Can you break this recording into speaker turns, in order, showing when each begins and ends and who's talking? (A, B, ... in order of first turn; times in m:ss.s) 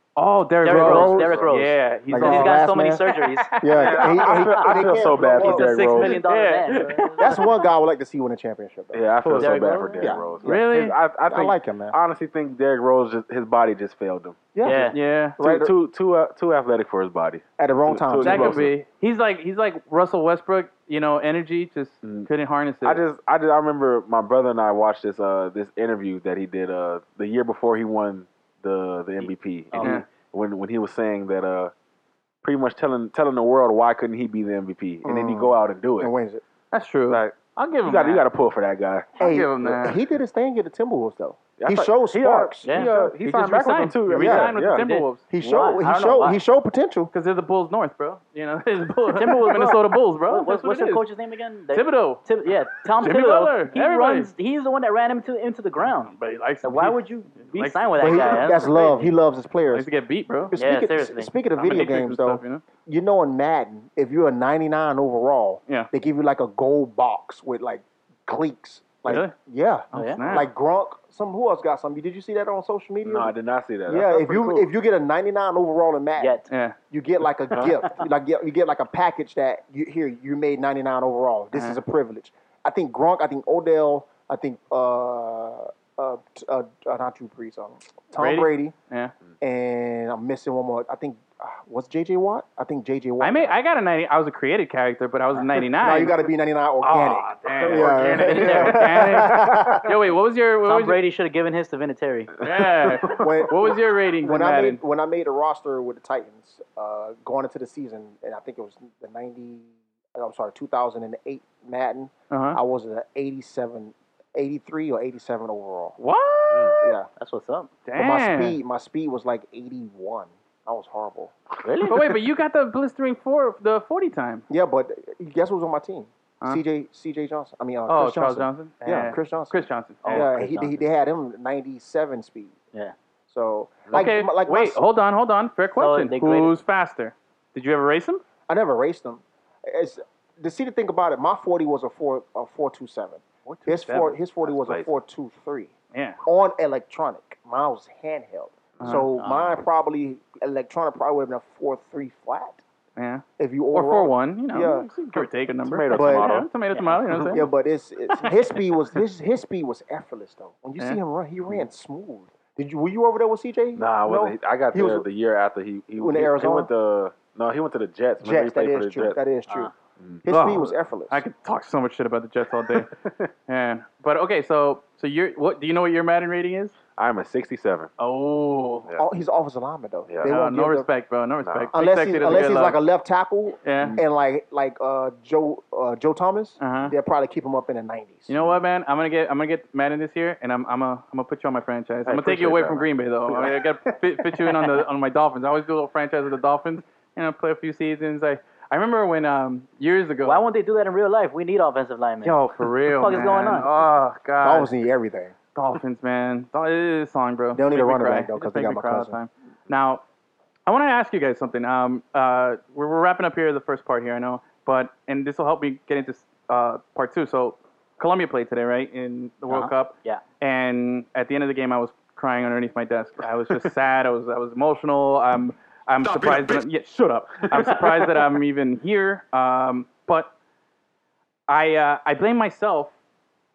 0:00.2-0:04.2 A
0:00.6-0:07.5 B
0:00.6-0:01.4 C
0:02.1-0:03.1 C
0:03.6-0:05.6 C
0:03.7-0:06.2 D
0:05.4-0:07.6 A
0:07.2-0:09.0 C
0:08.9-0:18.7 D
0:09.2-0:09.7 A
0:09.4-0:10.3 B
0:10.0-0:10.7 C
0:10.4-0:11.0 A
0:11.2-0:12.0 C
0:14.5-0:15.7 C
0:14.6-0:15.0 B
0:14.9-0:15.4 A
0:17.6-0:18.6 C
0:18.2-0:23.0 A
0:22.0-0:22.3 D
0:22.8-0:31.7 D
0:29.7-0:30.0 B
0:29.8-0:30.0 A
0:32.4-0:36.1 D
0:35.0-0:36.4 C
0:36.7-0:38.2 A
0:37.1-0:39.9 D
0:39.2-0:40.0 A
0:39.2-0:43.0 C
0:41.6-0:44.8 D
0:42.6-0:42.9 B
0:42.9-0:45.2 A
0:44.1-0:44.5 C
0:44.7-0:46.4 B
0:45.3-0:47.1 C
0:47.1-0:51.0 A
0:49.1-0:59.1 B
0:51.7-0:52.3 A
0:53.0-0:54.3 A
0:56.1-0:58.7 A
0:58.0-0:59.9 C
0:59.7-1:00.5 A
1:00.5-1:13.3 C
1:00.6-1:01.3 B
1:01.5-1:02.6 A
1:09.0-1:09.3 A
1:09.9-1:10.5 A
1:09.9-1:10.3 B
1:13.0-1:14.2 D
1:13.9-1:16.4 C
1:14.1-1:14.7 B
1:16.2-1:16.5 B
1:16.5-1:16.8 A
1:16.9-1:28.7 C
1:17.5-1:17.8 D
1:21.5-1:21.8 A
1:28.2-1:29.1 A
1:29.4-1:33.5 C
1:33.2-1:36.2 A
1:35.7-1:39.9 C
1:36.8-1:41.0 A
1:37.6-1:38.4 D
1:38.2-1:39.0 B
1:40.6-1:42.3 B
1:42.4-1:44.8 A
1:42.6-1:43.3 D
1:43.1-1:56.0 C
1:52.3-1:52.6 A
1:56.0-1:56.9 A
1:56.5-1:56.8 D
1:56.8-1:57.1 C
1:57.2-1:57.7 B
1:57.9-1:58.6 A
1:58.0-2:01.3 C
2:01.6-2:02.1 B
2:01.8-2:04.4 A
2:04.5-2:12.5 C
2:07.9-2:10.3 A
2:10.0-2:10.8 B
2:13.3-2:14.8 C
2:13.9-2:18.2 A
2:15.8-2:16.5 B
2:18.5-2:25.7 C
2:23.4-2:24.2 A
2:24.4-2:25.0 D
2:25.9-2:26.2 A
2:26.2-2:32.6 C
2:28.8-2:29.0 D
2:28.8-2:29.1 A
2:29.1-2:29.6 B
2:33.0-2:37.5 A
2:33.4-2:34.9 C
2:35.6-2:36.5 D
2:35.9-2:36.3 C
2:36.7-2:37.0 B
2:37.3-2:45.0 C
2:43.8-2:49.2 D
2:46.0-2:46.7 C
2:48.2-2:49.7 C
2:50.2-2:51.2 C
2:50.3-2:52.9 A
2:52.7-2:53.3 D
2:53.5-2:56.8 A
2:57.0-2:57.9 D
2:58.0-2:58.9 A
2:59.0-3:00.9 C
3:00.1-3:00.3 D
3:00.2-3:02.8 A
3:01.4-3:01.7 D
3:01.7-3:08.3 C
3:03.6-3:04.0 A
3:03.8-3:04.0 D
3:06.6-3:06.9 A
3:08.3-3:20.4 A
3:12.0-3:14.5 D
3:20.2-3:23.7 B
3:22.2-3:24.7 A
3:24.4-3:25.3 C
3:25.5-3:30.0 A
3:27.5-3:29.2 C
3:30.7-3:50.3 A
3:39.5-3:40.2 B
3:46.1-3:46.6 D
3:47.4-3:48.1 D
3:51.5-3:52.9 A